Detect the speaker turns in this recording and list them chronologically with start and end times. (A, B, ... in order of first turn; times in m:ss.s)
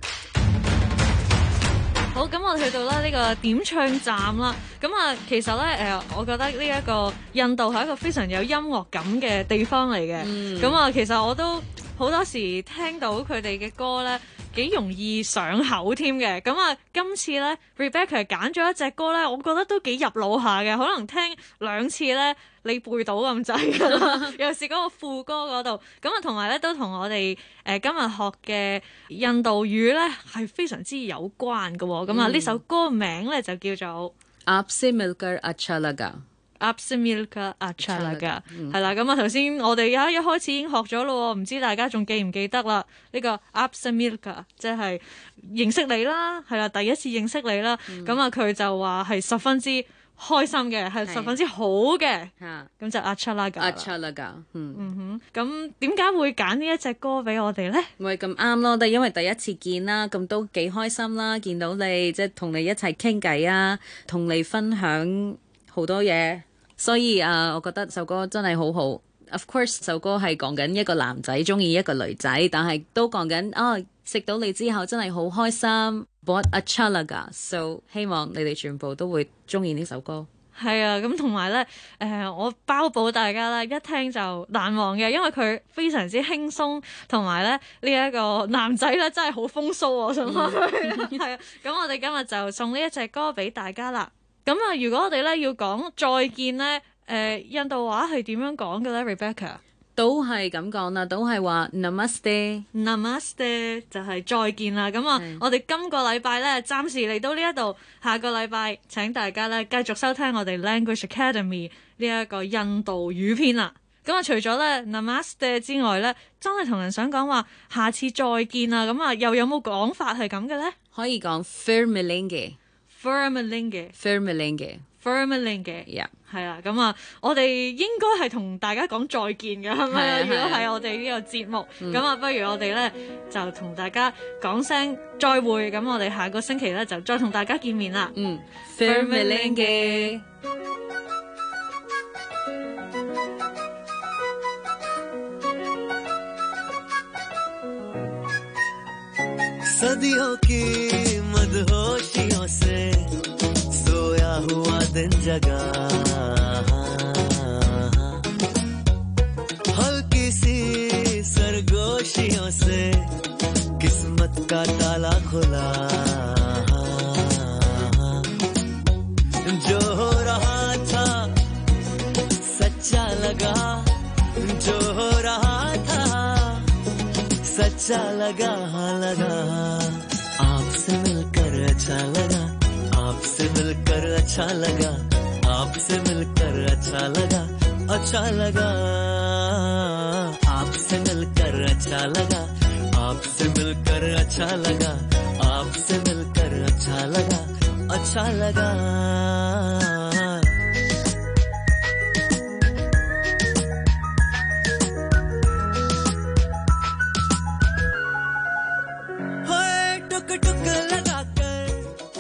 0:02.1-0:34.1 A
0:10.2-0:10.8 B
0:23.8-0:24.3 B
0:32.1-0:32.6 B
0:34.5-0:36.2 B
0:36.6-0:53.9 A
0:37.8-0:38.8 B
0:47.9-0:48.2 B
0:51.0-0:51.4 B
0:52.4-0:52.7 B
0:53.6-0:54.9 B
0:54.8-0:57.9 A
0:58.0-1:20.3 B
1:20.6-1:39.6 A
1:30.2-1:31.2 B
1:40.0-1:42.7 B
1:42.7-2:00.8 A
1:45.2-1:45.4 B
2:00.9-2:02.6 B
2:02.9-2:03.9 A
2:04.0-2:04.8 B
2:05.0-2:18.2 A
2:09.9-2:10.7 B
2:18.2-2:20.2 B
2:18.8-2:20.1 A
2:29.7-2:33.1 C
2:33.7-2:38.2 C
2:39.7-2:43.1 C
2:43.8-2:48.3 C
2:49.4-2:51.3 C
2:52.4-2:53.9 C
2:54.4-2:56.7 C
2:57.4-3:20.4 C
3:29.4-3:31.9 C